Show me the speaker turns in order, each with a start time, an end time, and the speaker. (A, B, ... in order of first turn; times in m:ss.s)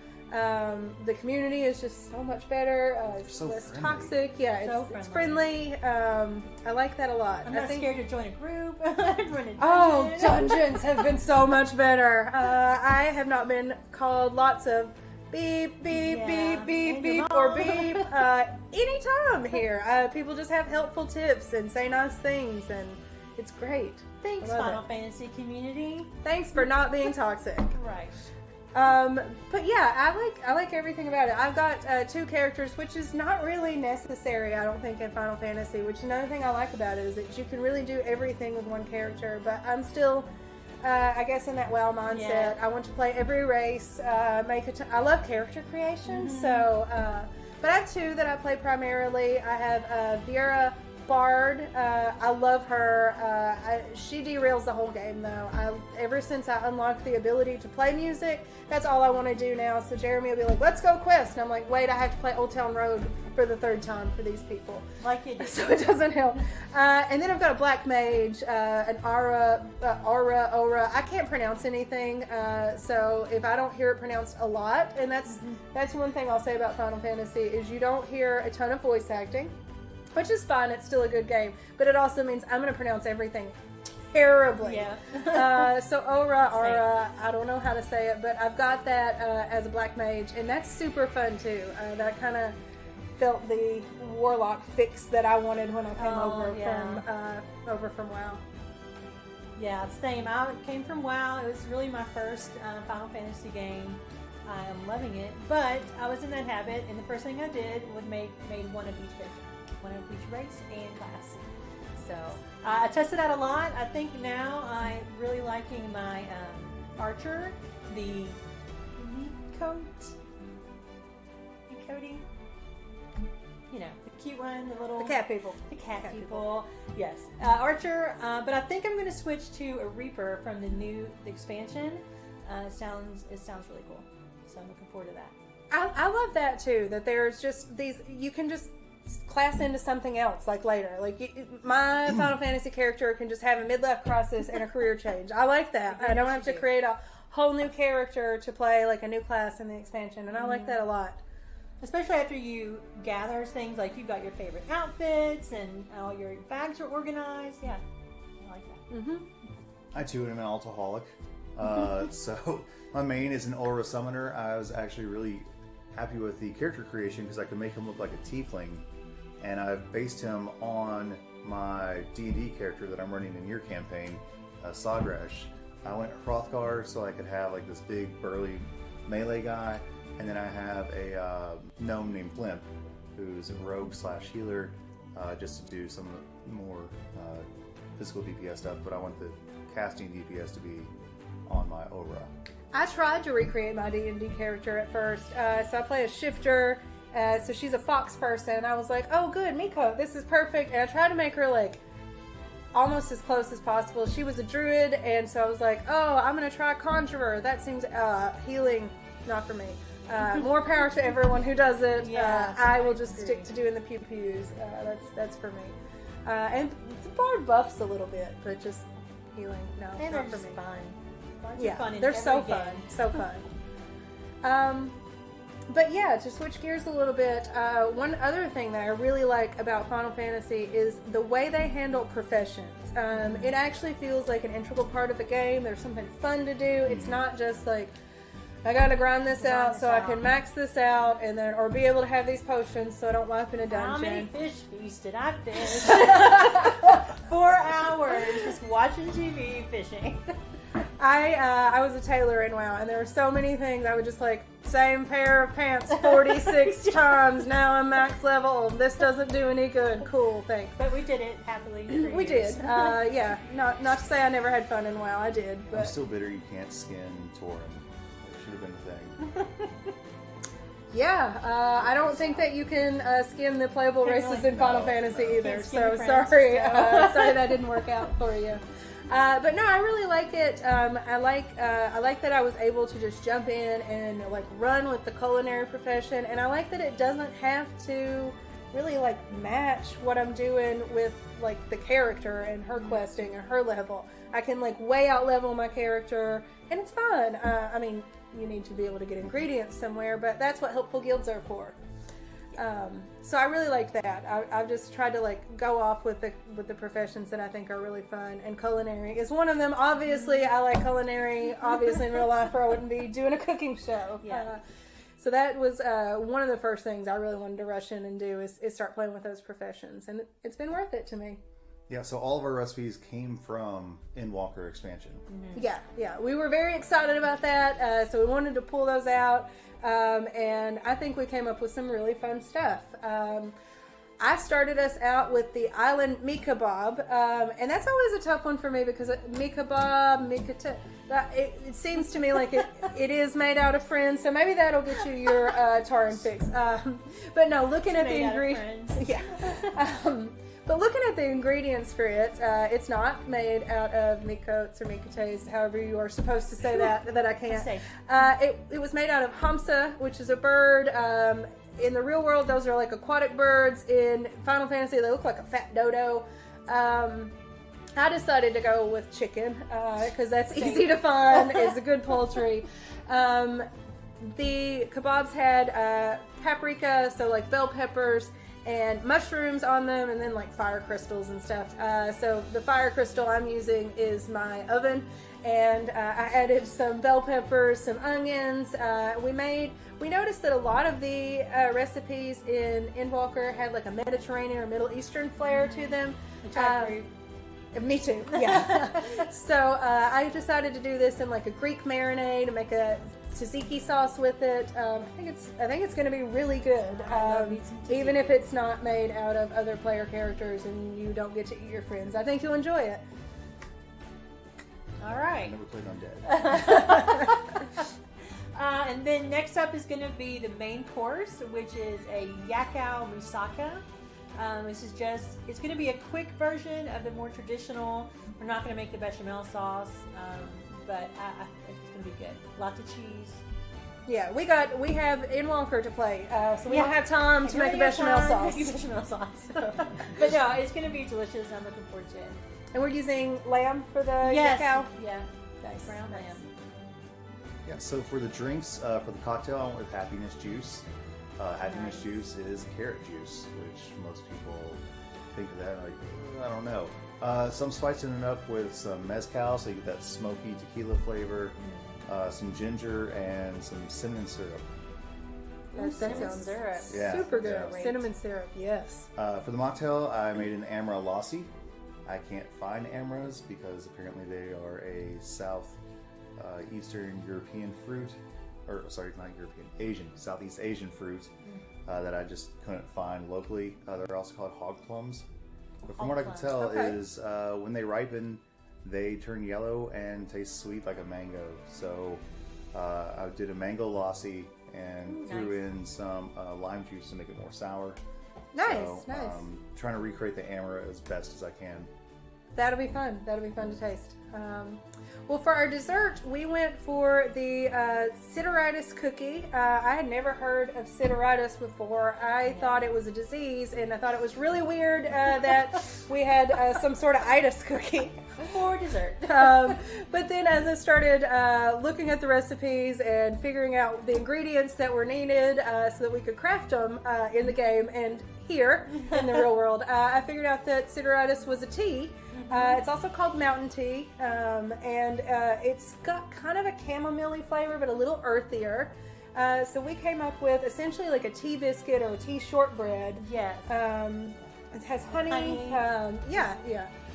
0:00.3-0:07.9 A
0:03.2-0:04.1 B
0:04.6-0:05.5 C
0:07.5-0:11.1 C
0:09.6-0:24.8 A
0:15.9-0:18.2 C
0:24.2-0:26.1 C
0:26.2-0:27.7 A
0:27.7-0:28.3 C
0:28.7-0:40.3 A
0:40.8-1:04.8 A
0:42.1-0:42.6 C
0:46.0-0:46.7 C
1:05.0-1:05.8 C
1:05.4-1:19.5 A
1:15.3-1:15.6 C
1:20.1-1:32.6 A
1:24.6-1:25.7 C
1:26.5-1:26.8 C
1:33.2-1:38.4 A
1:36.0-1:37.0 C
1:39.6-1:58.4 C
1:59.0-2:00.2 C
2:01.7-2:02.2 C
2:03.7-2:15.3 C
2:05.0-2:06.5 A
2:15.7-2:31.2 A
2:25.9-2:26.6 C
2:30.4-2:30.8 C
2:31.8-2:37.8 C
2:38.4-2:38.8 C
2:38.9-2:39.2 A
2:39.9-2:48.8 B
2:49.4-3:07.4 B
3:08.0-3:10.9 B
3:11.5-3:12.3 B
3:12.7-3:21.8 A
3:22.7-3:40.6 A
3:30.2-3:30.5 C
3:31.9-3:33.5 C
3:40.0-3:43.2 C
3:41.6-3:43.4 A
3:44.4-3:45.0 A
3:45.7-3:57.9 A
3:53.1-3:53.5 C
3:56.8-3:57.2 B
3:58.6-4:04.3 A
3:59.4-4:00.2 C
4:03.7-4:10.3 C
4:05.7-4:07.0 A
4:08.2-4:08.5 A
4:11.0-4:20.8 A
4:15.9-4:17.4 C
4:20.8-4:23.0 C
4:21.9-4:25.9 A
4:25.7-4:29.2 B
4:29.3-4:29.7 C
4:30.9-5:01.8 A
4:32.1-4:32.4 B
4:34.0-4:38.0 C
4:34.5-4:35.1 B
5:02.5-5:14.6 A
5:10.1-5:10.5 C
5:14.2-5:14.5 C
5:15.2-5:21.4 A
5:21.9-5:25.2 B
5:25.3-5:25.6 C
5:25.5-5:33.6 A
5:34.2-6:07.3 A
5:47.9-5:49.8 C
5:57.5-5:58.3 C
6:08.0-6:13.6 A
6:10.5-6:11.7 C
6:14.2-6:37.0 A
6:35.5-6:37.1 C
6:37.7-6:53.0 A
6:38.3-6:39.3 C
6:46.9-6:48.5 C
6:55.0-6:55.5 C
6:55.2-6:56.3 B
6:56.2-6:57.9 C
6:58.5-7:03.8 C
7:04.4-7:13.4 C
7:14.0-7:18.8 A
7:16.7-7:22.4 C
7:19.7-7:20.0 A
7:22.7-7:24.9 A
7:24.2-7:26.4 C
7:25.6-7:26.4 A
7:27.6-7:30.8 B
7:31.4-7:34.8 B
7:31.6-7:32.1 C
7:35.3-7:44.6 B
7:41.6-7:42.0 C
7:45.7-7:48.1 C
7:45.7-7:49.1 A
7:46.1-7:46.3 B
7:46.9-7:47.8 B
7:49.2-7:51.5 B
7:52.0-7:55.8 B
7:56.4-8:01.3 B
8:01.8-8:05.2 B
8:05.9-8:18.0 B
8:06.0-8:06.5 C
8:06.6-8:07.0 A
8:15.0-8:15.6 C
8:18.5-8:19.4 A
8:18.6-8:21.9 B
8:22.5-8:38.4 A
8:32.4-8:32.8 C
8:38.4-8:39.8 C
8:39.2-9:06.9 A
8:49.0-8:49.4 C
8:52.3-8:52.8 C
9:03.2-9:03.8 C
9:05.1-9:06.4 C